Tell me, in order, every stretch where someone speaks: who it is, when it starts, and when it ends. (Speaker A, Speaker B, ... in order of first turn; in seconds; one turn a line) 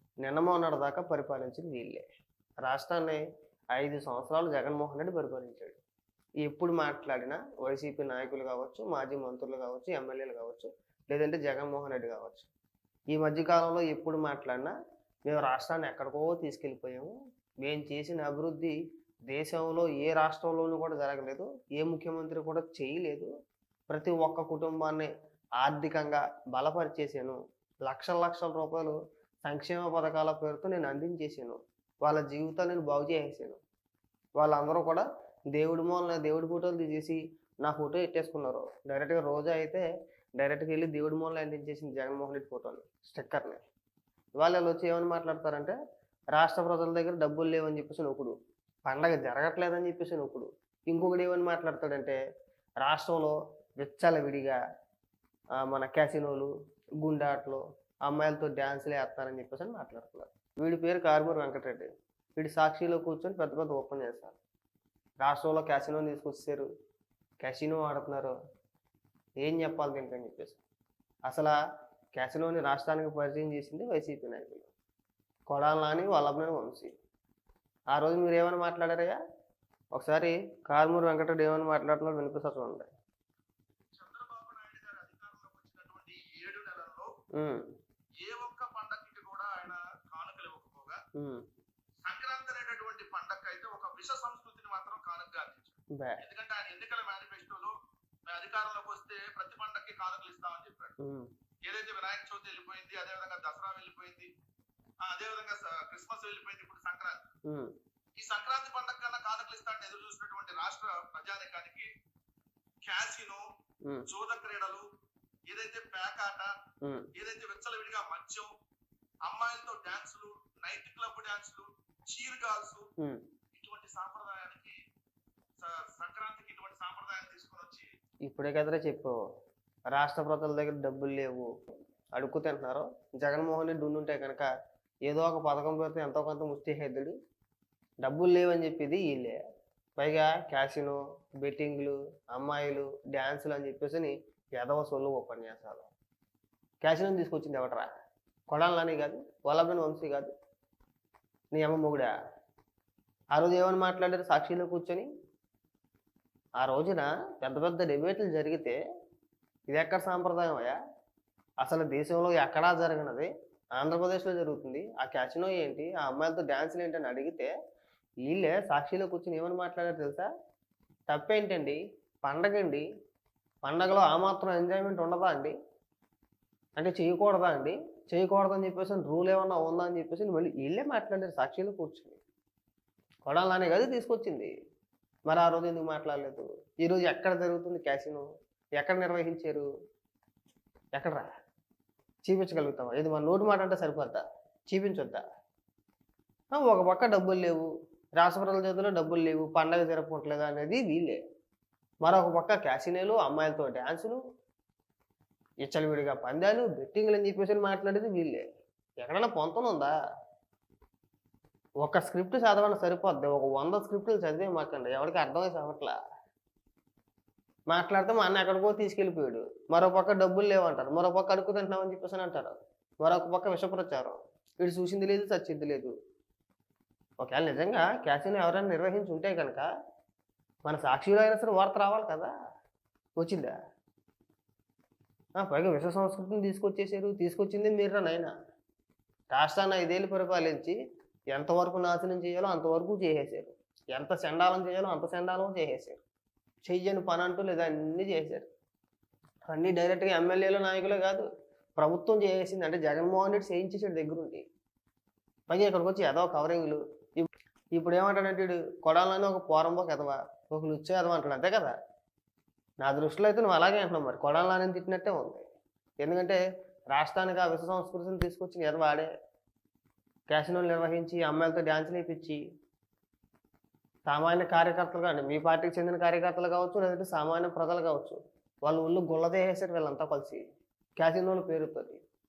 Speaker A: 0.2-2.0
Speaker A: 2.6-3.2
Speaker A: 3.7-5.8
Speaker A: 6.4-12.5
Speaker A: 13.1-14.7
Speaker A: 15.3-18.8
Speaker A: 19.3-23.3
Speaker A: 23.9-33.6
Speaker A: 34.4-39.9
Speaker A: 40.4-43.6
Speaker A: 44.4-45.8
Speaker A: 46.3-48.3
Speaker A: 48.9-52.2
Speaker A: 52.8-54.6
Speaker A: 55.6-64.3
Speaker A: 65.2-66.7
Speaker A: 67.4-68.3
Speaker A: 69.4-70.6
Speaker A: 71.3-71.5
Speaker A: 72.1-74.7
Speaker A: 75.5-76.9
Speaker A: 77.9-79.2
Speaker A: 79.9-82.9
Speaker B: 83.9-87.1
Speaker A: 87.3-87.6
Speaker B: 88.2-91.0
Speaker A: 91.1-91.4
Speaker B: 92.0-97.7
Speaker A: 95.9-96.2
Speaker B: 98.3-101.0
Speaker A: 101.0-101.3
Speaker B: 101.6-104.3
Speaker B: 105.0-107.3
Speaker A: 107.5-107.7
Speaker B: 108.2-111.9
Speaker B: 112.8-113.4
Speaker B: 114.1-114.8
Speaker B: 115.5-116.5
Speaker A: 116.8-117.1
Speaker B: 117.1-118.5
Speaker B: 119.2-122.9
Speaker B: 123.5-124.8
Speaker B: 125.6-127.9
Speaker A: 128.2-129.2
Speaker A: 129.9-131.5
Speaker A: 132.2-134.5
Speaker A: 135.1-137.1
Speaker A: 138.0-139.4
Speaker A: 140.0-145.9
Speaker A: 146.8-147.9
Speaker A: 148.5-150.3
Speaker A: 151.5-152.2
Speaker A: 153.3-155.1
Speaker A: 156.6-158.8
Speaker A: 159.7-160.8
Speaker A: 161.6-167.5
Speaker A: 168.2-170.3
Speaker A: 171.1-172.8
Speaker A: 173.6-175.5
Speaker A: 176.8-182.2
Speaker A: 183.2-184.5
Speaker A: 185.3-189.7
Speaker A: 190.9-191.3
Speaker A: 192.2-195.2
Speaker A: 196.5-201.2
Speaker A: 202.0-204.2
Speaker A: 205.6-208.4
Speaker A: 209.0-209.9
Speaker A: 211.8-215.9
Speaker A: 217.7-225.9
Speaker A: 227.2-229.7
Speaker A: 230.7-232.3
Speaker A: 233.2-233.6
Speaker A: 235.4-238.3
Speaker A: 239.3-240.8
Speaker A: 241.3-246.0
Speaker A: 246.7-248.4
Speaker A: 249.5-254.4
Speaker A: 255.5-261.7
Speaker A: 262.8-265.4
Speaker A: 266.0-269.1
Speaker A: 270.3-272.4
Speaker A: 274.1-280.4
Speaker A: 281.0-282.0